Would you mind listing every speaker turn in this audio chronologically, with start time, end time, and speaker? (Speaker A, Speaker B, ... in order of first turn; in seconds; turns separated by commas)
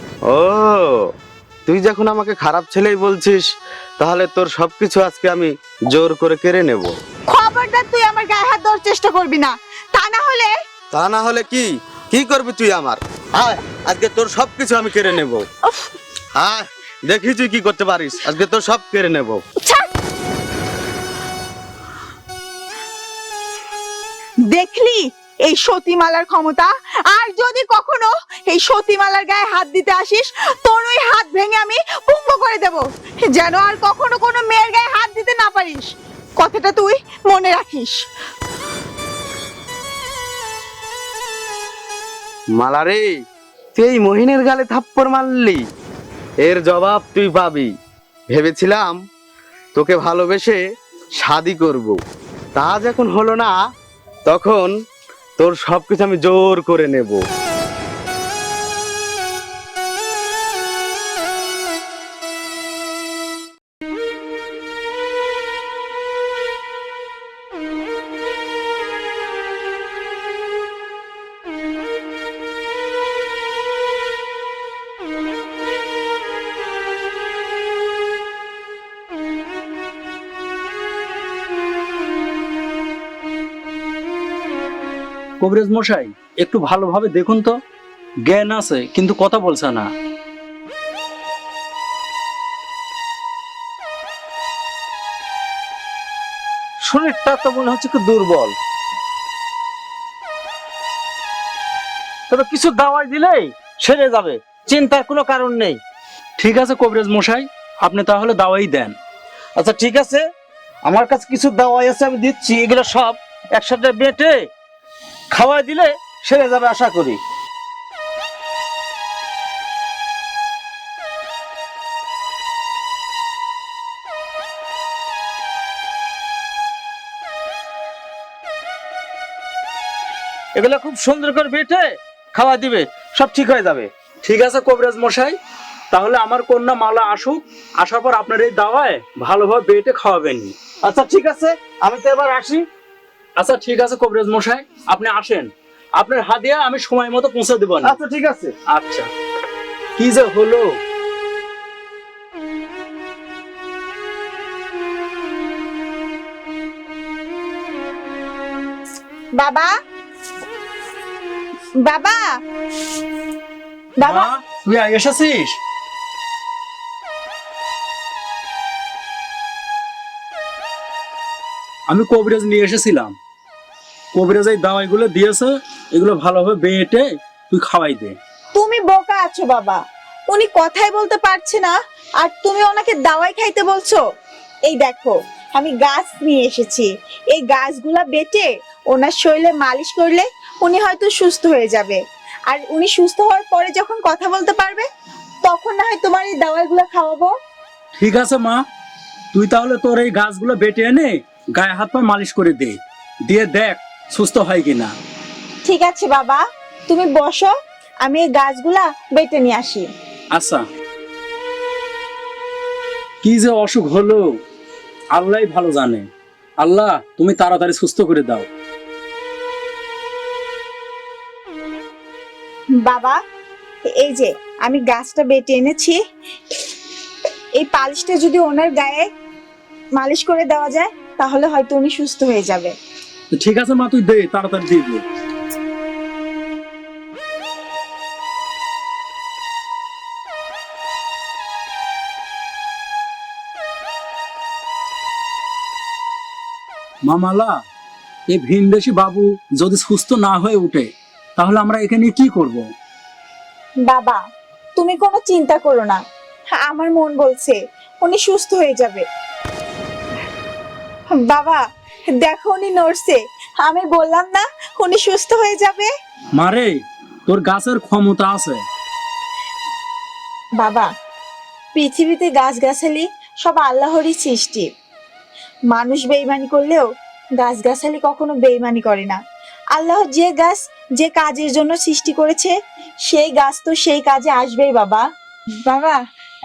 Speaker A: 0.3-1.1, Speaker A: 1.7-3.4, Speaker A: 4.0-7.0, Speaker B: 7.3-10.5, Speaker A: 10.9-15.4, Speaker A: 16.4-19.4, Speaker B: 19.6-19.9, Speaker B: 24.5-38.0, Speaker A: 42.5-43.2, Speaker A: 43.8-45.6, Speaker A: 46.4-47.7, Speaker A: 48.3-49.0, Speaker A: 49.7-50.6, Speaker A: 51.2-52.0, Speaker A: 52.5-53.5, Speaker A: 54.3-54.7, Speaker A: 55.4-57.2, Speaker C: 85.4-87.5, Speaker C: 88.2-89.9, Speaker D: 96.8-98.5, Speaker D: 102.3-105.8, Speaker C: 106.4-108.9, Speaker D: 109.5-110.2, Speaker D: 110.8-114.5, Speaker D: 115.3-117.2, Speaker D: 130.5-133.9, Speaker C: 134.2-135.3, Speaker C: 135.9-140.5, Speaker D: 140.8-142.7, Speaker C: 143.4-148.0, Speaker D: 147.8-148.5, Speaker C: 148.7-149.1, Speaker C: 150.0-150.8, Speaker B: 159.3-159.7, Speaker B: 161.8-162.4, Speaker B: 164.0-164.3, Speaker C: 164.0-165.6, Speaker C: 171.9-173.1, Speaker C: 174.1-178.2, Speaker B: 178.6-184.0, Speaker B: 184.7-194.9, Speaker B: 195.4-197.3, Speaker C: 198.0-198.6, Speaker C: 199.3-204.9, Speaker B: 205.7-209.8, Speaker C: 210.3-210.6, Speaker C: 213.2-214.3, Speaker C: 215.1-216.1, Speaker C: 216.6-218.4, Speaker B: 222.8-223.2, Speaker B: 223.9-226.0, Speaker B: 227.6-229.1, Speaker B: 229.9-232.7, Speaker C: 233.3-235.0, Speaker C: 247.1-247.5, Speaker C: 248.3-252.7, Speaker B: 253.8-254.2, Speaker B: 254.8-256.0, Speaker B: 256.6-259.1, Speaker B: 261.1-261.6, Speaker B: 262.2-265.9, Speaker C: 266.4-268.6, Speaker B: 270.6-270.9, Speaker B: 271.8-274.7, Speaker B: 275.7-279.2, Speaker B: 279.7-282.5, Speaker B: 283.1-285.1, Speaker B: 285.6-286.0